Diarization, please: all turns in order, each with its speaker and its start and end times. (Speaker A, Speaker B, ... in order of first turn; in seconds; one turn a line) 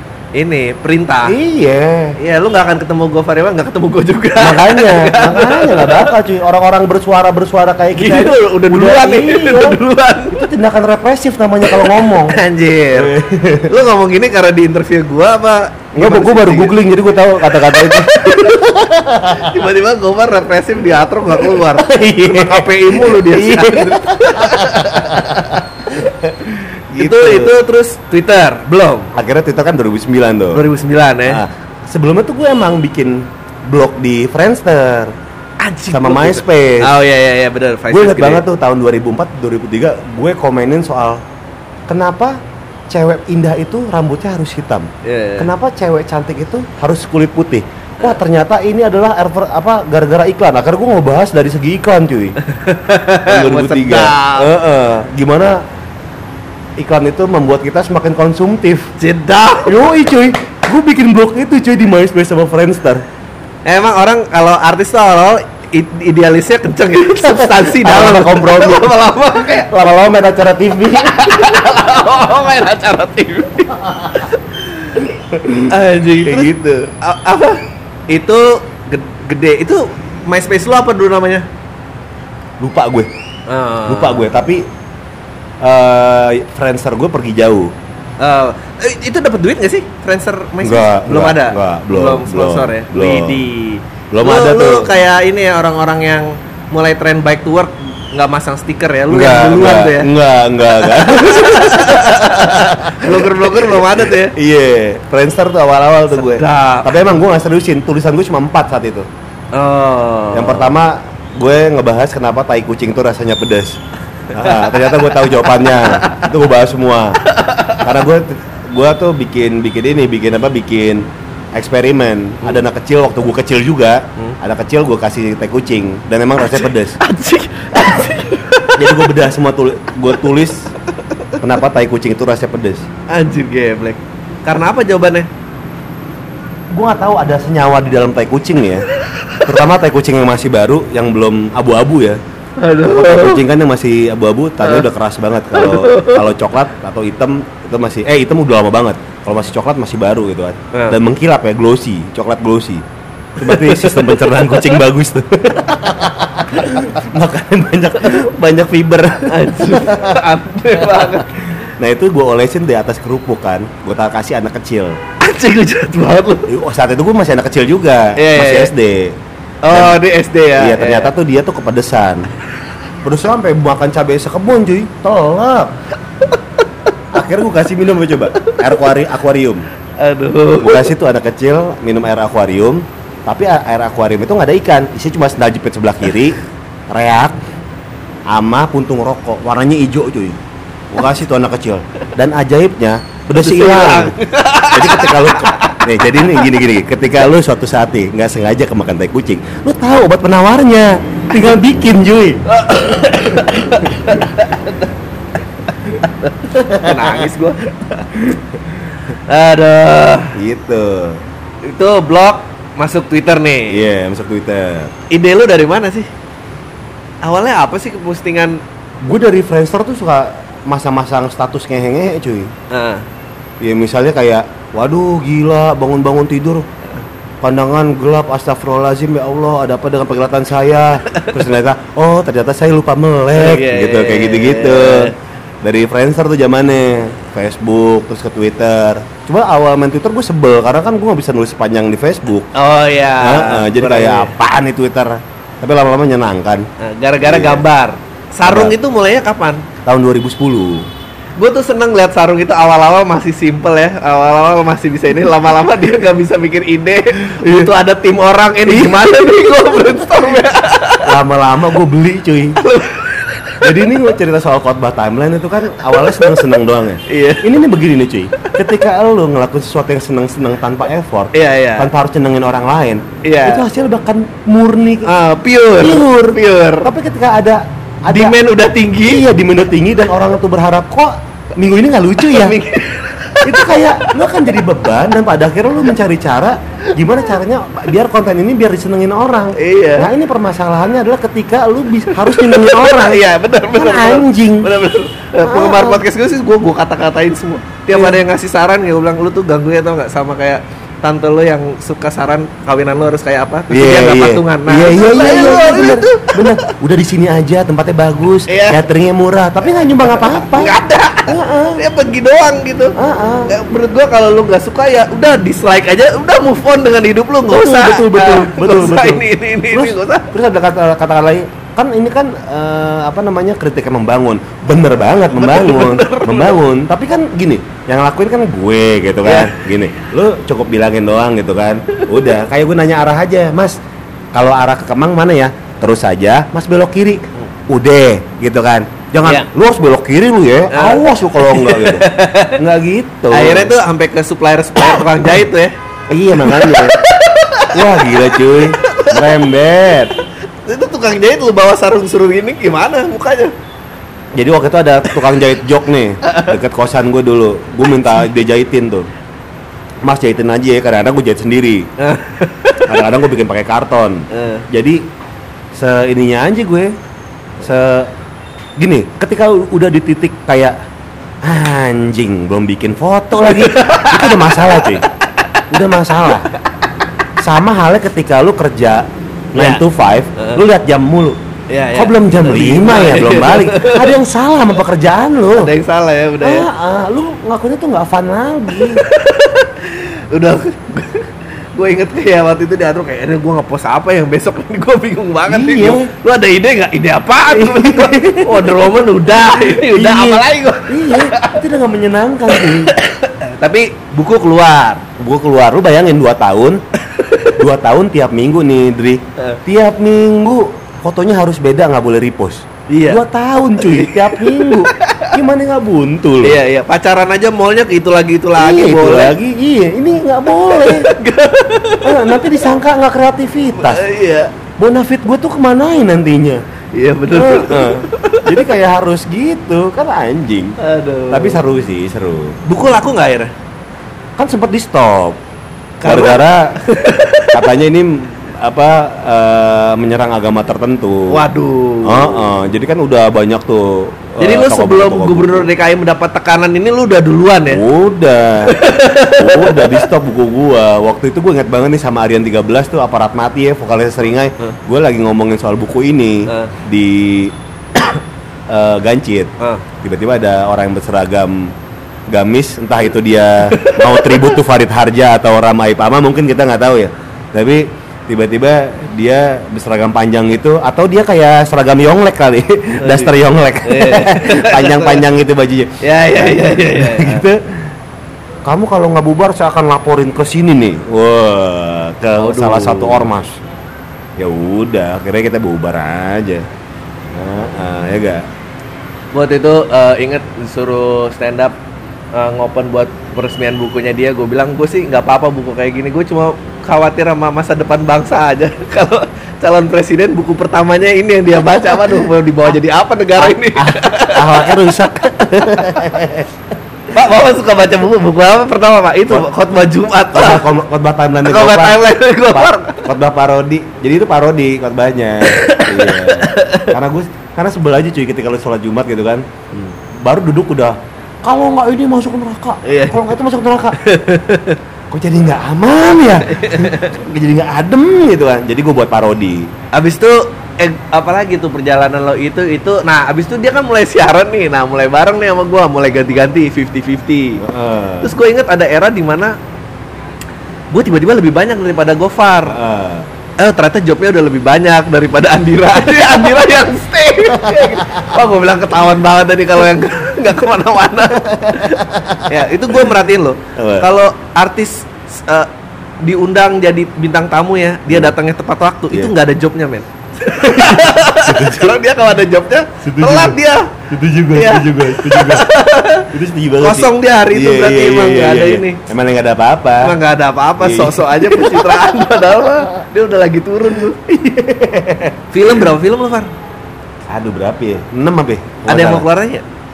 Speaker A: 0.3-1.3
Speaker B: 1.2-2.1
Speaker A: 2.2-6.1
Speaker B: 4.4-9.8
Speaker A: 7.9-10.5
Speaker B: 10.4-12.4
Speaker A: 11.6-13.2
Speaker B: 12.9-13.7
Speaker A: 13.7-16.8
Speaker B: 15.9-19.6
Speaker A: 17.4-18.6
Speaker A: 19.3-26.1
Speaker B: 21.3-27.5
Speaker A: 26.9-29.1
Speaker B: 29.1-30.6
Speaker A: 30.5-31.4
Speaker B: 31.2-35.1
Speaker A: 35.6-38.4
Speaker B: 35.9-36.9
Speaker B: 37.9-41.2
Speaker B: 41.9-42.4
Speaker B: 42.9-52.4
Speaker A: 45.0-45.5
Speaker A: 52.4-54.5
Speaker B: 53.2-55.6
Speaker B: 56.8-58.9
Speaker A: 59.0-59.8
Speaker B: 59.6-63.0
Speaker A: 63.6-69.7
Speaker B: 67.3-69.0
Speaker B: 69.5-71.7
Speaker A: 70.9-81.5
Speaker B: 75.3-76.8
Speaker B: 82.6-83.1
Speaker A: 83.5-84.3
Speaker B: 83.8-84.7
Speaker B: 85.6-87.7
Speaker A: 88.2-100.1
Speaker B: 90.6-93.4
Speaker B: 94.1-94.9
Speaker B: 99.1-109.1
Speaker A: 100.7-104.3
Speaker A: 106.1-107.2
Speaker A: 109.5-110.8
Speaker B: 110.3-113.8
Speaker B: 114.3-117.2
Speaker A: 114.4-116.3
Speaker A: 117.2-117.9
Speaker B: 117.8-127.0
Speaker A: 126.5-129.2
Speaker B: 128.8-130.7
Speaker B: 131.4-132.8
Speaker A: 133.1-135.3
Speaker B: 136.7-138.9
Speaker A: 139.0-139.5
Speaker B: 139.4-142.2
Speaker A: 142.6-143.4
Speaker B: 142.8-152.8
Speaker A: 145.5-146.2
Speaker A: 150.7-151.0
Speaker B: 153.4-160.2
Speaker A: 153.4-154.8
Speaker A: 159.2-161.3
Speaker B: 160.8-165.0
Speaker A: 165.2-166.5
Speaker B: 166.5-169.2
Speaker A: 168.2-168.7
Speaker A: 169.6-171.1
Speaker B: 169.7-170.0
Speaker B: 170.6-172.3
Speaker B: 173.0-175.8
Speaker B: 177.1-179.7
Speaker A: 180.0-180.9
Speaker B: 180.6-186.4
Speaker B: 186.9-187.3
Speaker B: 188.3-194.2
Speaker A: 193.3-196.4
Speaker B: 194.7-202.4
Speaker A: 202.5-204.9
Speaker A: 205.7-208.4
Speaker B: 206.6-207.2
Speaker A: 209.1-210.4
Speaker B: 210.3-211.2
Speaker A: 211.6-213.8
Speaker B: 213.7-214.9
Speaker A: 215.1-216.1
Speaker A: 217.2-218.6
Speaker B: 219.0-222.5
Speaker A: 222.7-223.0
Speaker B: 223.6-226.7
Speaker B: 227.4-242.5
Speaker A: 233.3-235.1
Speaker A: 242.5-244.3
Speaker B: 243.2-246.7
Speaker A: 246.8-249.7
Speaker B: 247.2-247.6
Speaker B: 248.4-248.8
Speaker B: 249.8-250.9
Speaker A: 251.4-261.1
Speaker B: 257.4-257.7
Speaker B: 258.7-259.2
Speaker B: 261.0-262.6
Speaker A: 262.6-263.7
Speaker B: 263.6-275.1
Speaker A: 266.0-266.4
Speaker A: 267.1-267.5
Speaker A: 271.3-271.9
Speaker A: 273.2-273.6
Speaker A: 275.0-276.9
Speaker B: 275.8-278.4
Speaker A: 278.1-279.2
Speaker B: 279.0-282.6
Speaker A: 282.2-284.2
Speaker B: 283.4-294.7
Speaker A: 289.5-290.1
Speaker A: 292.1-306.7
Speaker B: 295.4-296.0
Speaker B: 297.9-298.2
Speaker B: 303.7-311.8
Speaker A: 308.5-308.8
Speaker A: 310.0-312.9
Speaker B: 312.9-313.6
Speaker A: 313.5-320.3
Speaker B: 317.5-333.8
Speaker A: 325.3-326.6
Speaker A: 329.2-329.7
Speaker A: 331.9-332.2
Speaker B: 334.3-343.7
Speaker A: 339.2-339.5
Speaker A: 340.7-342.6
Speaker A: 343.3-345.7
Speaker B: 346.1-347.0
Speaker A: 346.3-349.4
Speaker B: 347.7-350.1
Speaker A: 350.6-353.5
Speaker B: 354.3-359.1
Speaker A: 356.2-356.5
Speaker B: 360.0-361.9
Speaker A: 362.0-363.0
Speaker B: 362.9-365.0
Speaker A: 364.3-364.6
Speaker B: 365.7-366.9
Speaker B: 367.6-368.1
Speaker B: 368.8-370.8
Speaker B: 371.4-375.1
Speaker A: 373.4-376.6
Speaker B: 375.7-376.5
Speaker B: 377.4-381.4
Speaker A: 379.6-379.8
Speaker A: 380.4-380.6
Speaker A: 381.7-384.2
Speaker B: 381.9-385.7
Speaker A: 385.5-386.7
Speaker B: 386.4-389.0
Speaker A: 388.8-401.6
Speaker B: 395.5-396.1
Speaker B: 397.5-398.7
Speaker B: 399.5-402.9
Speaker A: 402.5-405.0
Speaker B: 405.2-406.8
Speaker A: 407.1-407.6
Speaker B: 407.5-416.6
Speaker A: 412.9-413.2
Speaker A: 413.8-415.3
Speaker A: 416.4-419.4
Speaker B: 418.6-421.1
Speaker A: 420.6-422.7
Speaker B: 422.0-424.0
Speaker A: 423.8-424.5
Speaker B: 424.8-426.6
Speaker A: 426.9-428.6
Speaker B: 427.3-430.8
Speaker A: 430.8-431.6
Speaker B: 431.3-432.6
Speaker A: 432.6-433.5
Speaker B: 434.4-435.4
Speaker B: 436.0-436.8
Speaker A: 436.0-437.6
Speaker B: 437.5-441.4
Speaker A: 441.3-442.5
Speaker B: 442.0-445.7
Speaker A: 444.4-447.8
Speaker B: 447.7-459.5
Speaker A: 448.6-450.1
Speaker A: 456.5-456.7
Speaker B: 460.0-461.7
Speaker B: 462.3-477.6
Speaker A: 463.6-464.5
Speaker A: 473.0-475.2
Speaker A: 476.0-477.4
Speaker B: 478.6-483.6
Speaker A: 482.4-483.2
Speaker B: 484.4-486.7
Speaker B: 487.3-488.4
Speaker A: 489.3-491.7
Speaker A: 492.3-506.2
Speaker B: 503.4-506.5
Speaker A: 507.1-510.6
Speaker B: 510.3-519.5
Speaker A: 511.4-513.0
Speaker A: 515.4-516.9
Speaker B: 520.1-524.0
Speaker A: 522.8-523.3
Speaker A: 524.0-524.8
Speaker B: 525.1-529.7
Speaker A: 526.4-527.1
Speaker A: 529.9-537.6
Speaker B: 537.6-538.3
Speaker A: 538.2-539.5
Speaker A: 540.9-542.8
Speaker B: 542.7-543.3
Speaker A: 543.6-555.7
Speaker B: 547.7-548.2
Speaker B: 551.7-552.5
Speaker B: 553.8-554.1
Speaker A: 556.2-564.0
Speaker B: 558.1-558.3
Speaker B: 560.6-562.0
Speaker B: 563.0-565.7
Speaker A: 564.5-569.0
Speaker B: 566.3-570.1
Speaker A: 570.0-574.2
Speaker B: 570.8-572.2
Speaker B: 574.1-575.4
Speaker A: 575.5-576.5
Speaker B: 577.3-579.3
Speaker A: 578.9-579.6